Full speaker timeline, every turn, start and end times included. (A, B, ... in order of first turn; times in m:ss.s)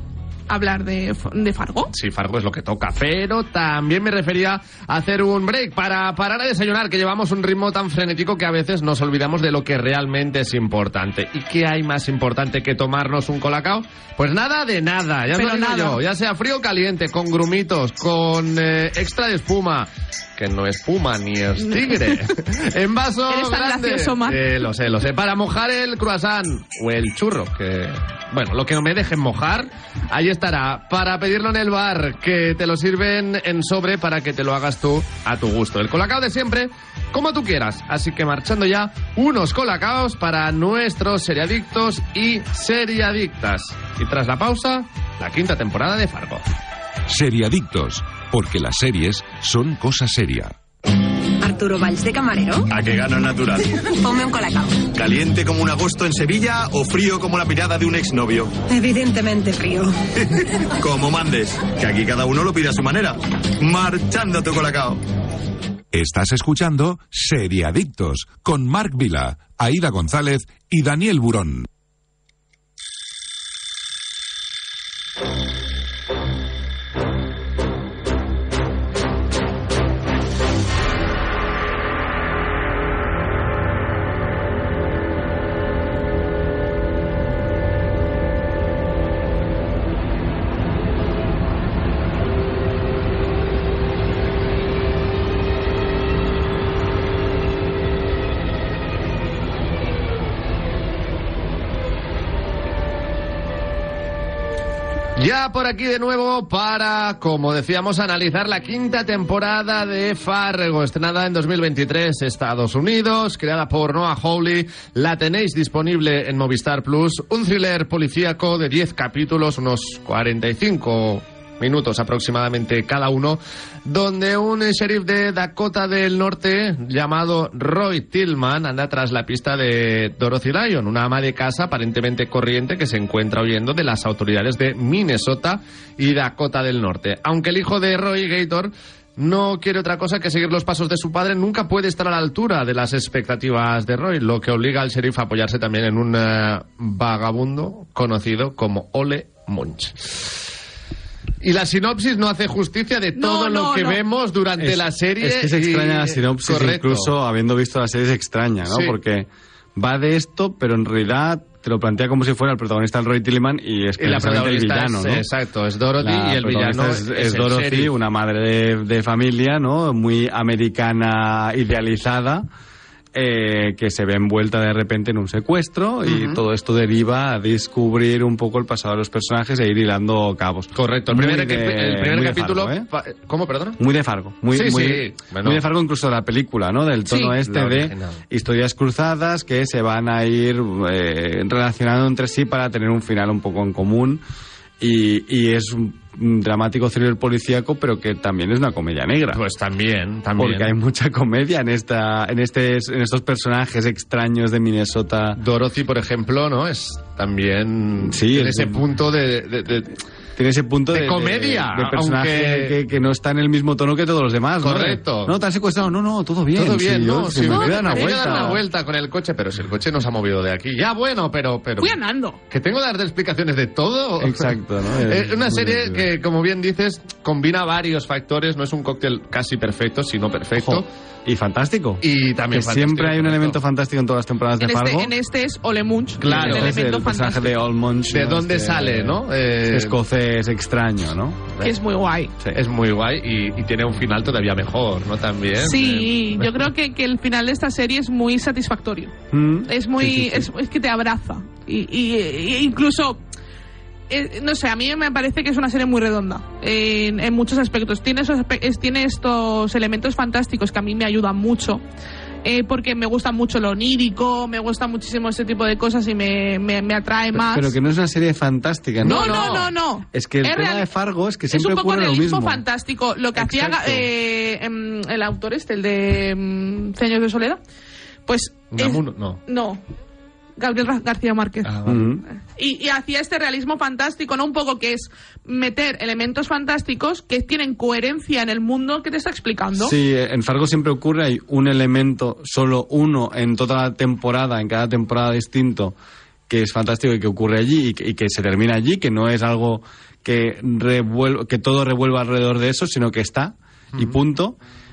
0:00.5-0:01.9 A
0:01.9-0:46.4 B
0:15.3-0:16.0 A
0:21.6-0:22.2 A
0:23.3-0:24.4 A
0:47.1-0:50.5 C
0:51.4-0:52.7 D
0:52.7-0:53.7 E
0:54.0-0:54.9 D
0:54.9-0:58.6 E
0:58.7-1:00.0 D
1:00.8-1:05.0 E
1:05.9-1:11.7 C
1:45.2-2:30.4 B
2:31.4-2:37.1 B
2:33.2-2:34.0 A
2:34.6-2:45.3 F
2:38.7-2:39.0 B
2:44.0-2:47.9 B
2:46.0-2:52.5 F
2:53.1-3:02.9 F
2:56.0-2:56.4 B
3:00.8-3:03.8 B
3:03.8-3:14.2 F
3:04.5-3:05.6 B
3:07.2-3:08.2 B
3:14.8-3:19.4 F
3:19.3-3:20.7 B
3:20.4-3:25.4 F
3:25.4-3:30.0 B
3:28.0-3:28.8 F
3:30.4-3:38.6 F
3:30.9-3:32.8 B
3:34.6-3:35.4 B
3:36.6-3:42.0 B
3:37.5-3:38.6 A
3:41.8-3:42.4 A
3:42.5-3:50.9 B
3:44.2-3:46.1 F
3:50.6-3:55.1 F
3:52.0-3:53.6 B
3:54.6-3:57.6 A
3:56.2-3:56.7 B
3:56.2-4:01.6 F
3:58.1-4:00.0 B
4:01.6-4:02.3 A
4:02.5-4:06.7 B
4:05.6-4:09.1 A
4:09.3-4:10.5 F
4:09.7-4:13.2 A
4:14.1-4:21.8 A
4:22.4-4:27.7 A
4:27.3-4:32.6 F
4:29.0-4:29.7 B
4:29.0-4:30.9 A
4:31.5-4:37.6 A
4:33.4-4:34.1 F
4:38.3-4:39.8 A
4:38.7-4:39.4 B
4:40.6-4:41.7 A
4:41.6-4:42.0 B
4:41.8-4:42.2 F
4:42.3-4:50.0 A
4:49.8-4:56.0 F
4:56.5-5:04.6 F